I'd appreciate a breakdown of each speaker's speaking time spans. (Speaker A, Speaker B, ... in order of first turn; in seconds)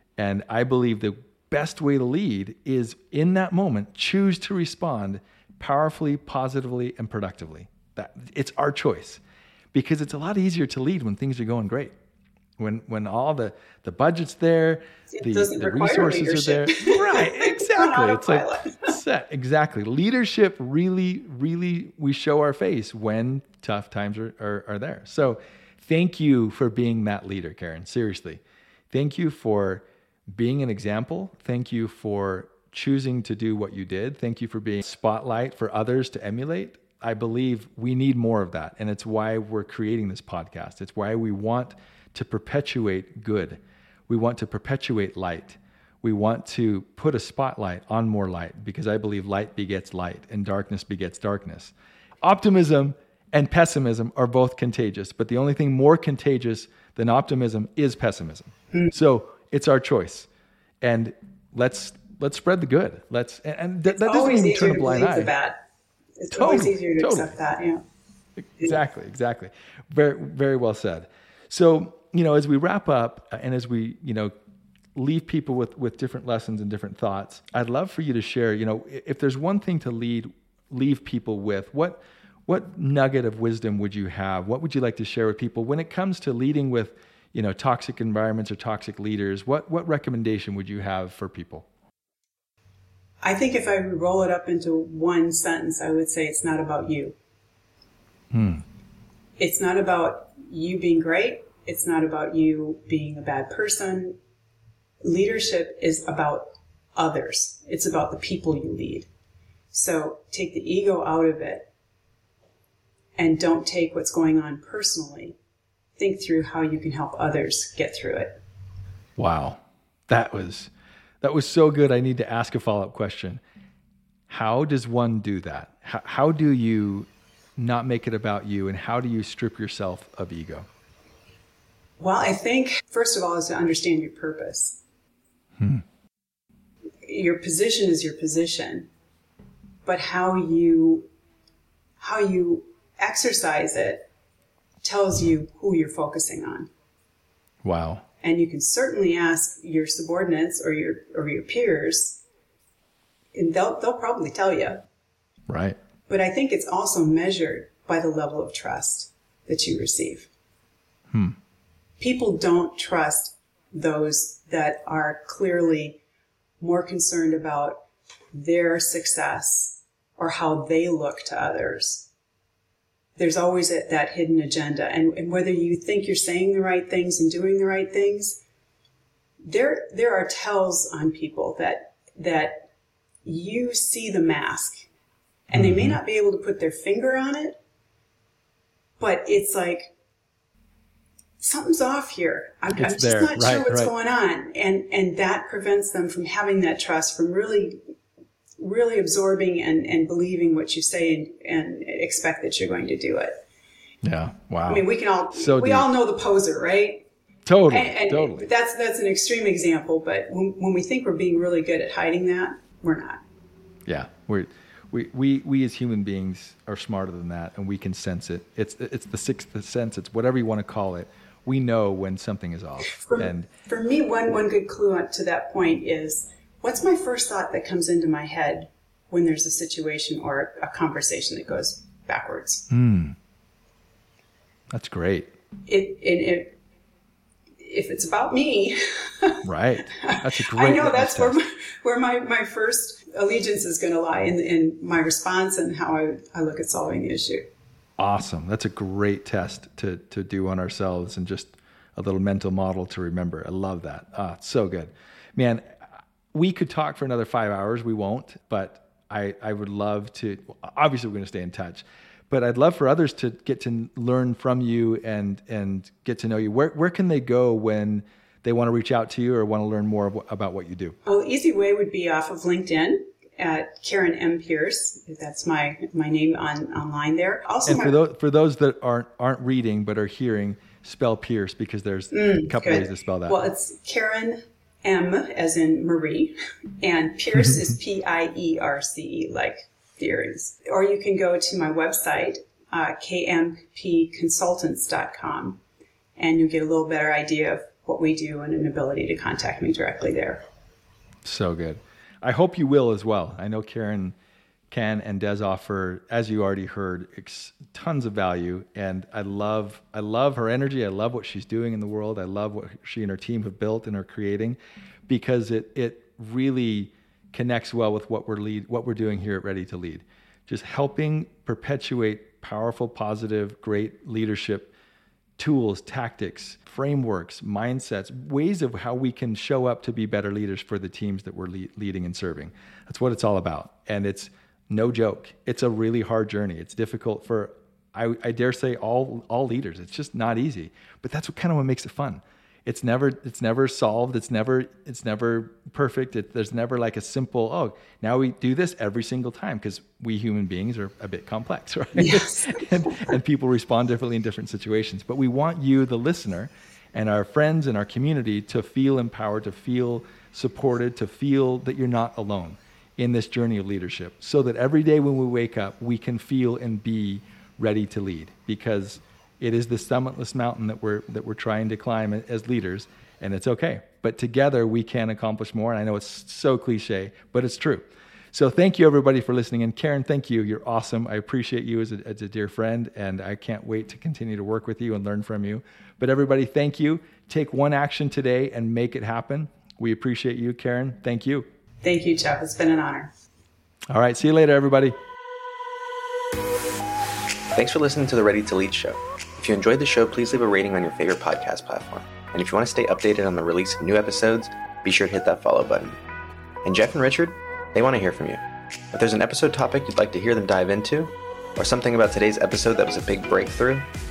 Speaker A: 0.2-9.2, 9.7-11.9, 12.6-60.3, 60.8-65.3, 66.3-67.4, 68.6-74.3, 75.0-91.7, 98.3-98.6, 119.2-120.7, 121.2-123.4, 124.3-130.7, 135.6-135.8, 147.6-148.1, 155.5-155.8, 161.1-161.4, 185.5-186.0, 192.7-193.9, 204.0-205.9, 207.5-208.5, 213.9-223.5, 232.7-233.2, 234.7-235.3, 239.4-241.4, 248.0-255.8, 256.3-271.0, 277.7-283.4, 301.2-304.1, 304.7-324.7, 325.4-391.5, 393.9-395.0
Speaker B: 15.1-19.0, 63.9-65.6, 66.2-67.8, 93.2-97.2, 99.4-104.2, 105.0-109.1, 109.7-111.7, 113.2-115.4, 116.0-118.4, 132.0-134.8, 137.1-138.9, 139.9-141.1, 142.0-144.1, 144.8-146.7, 148.2-152.2, 153.3-154.8, 156.1-160.3, 162.0-166.0, 166.6-172.1, 173.2-178.4, 179.4-182.7, 183.2-184.9, 185.5-187.6, 189.0-189.9, 191.4-197.8, 198.6-203.4, 204.7-207.1, 207.7-213.2, 222.8-232.7, 235.7-236.6, 237.6-239.4, 240.0-247.5, 271.1-278.0, 282.1-295.6, 296.2-300.4, 352.0-353.1, 391.8-393.1
Speaker C: 397.5-406.0, 406.6-408.4, 408.9-413.9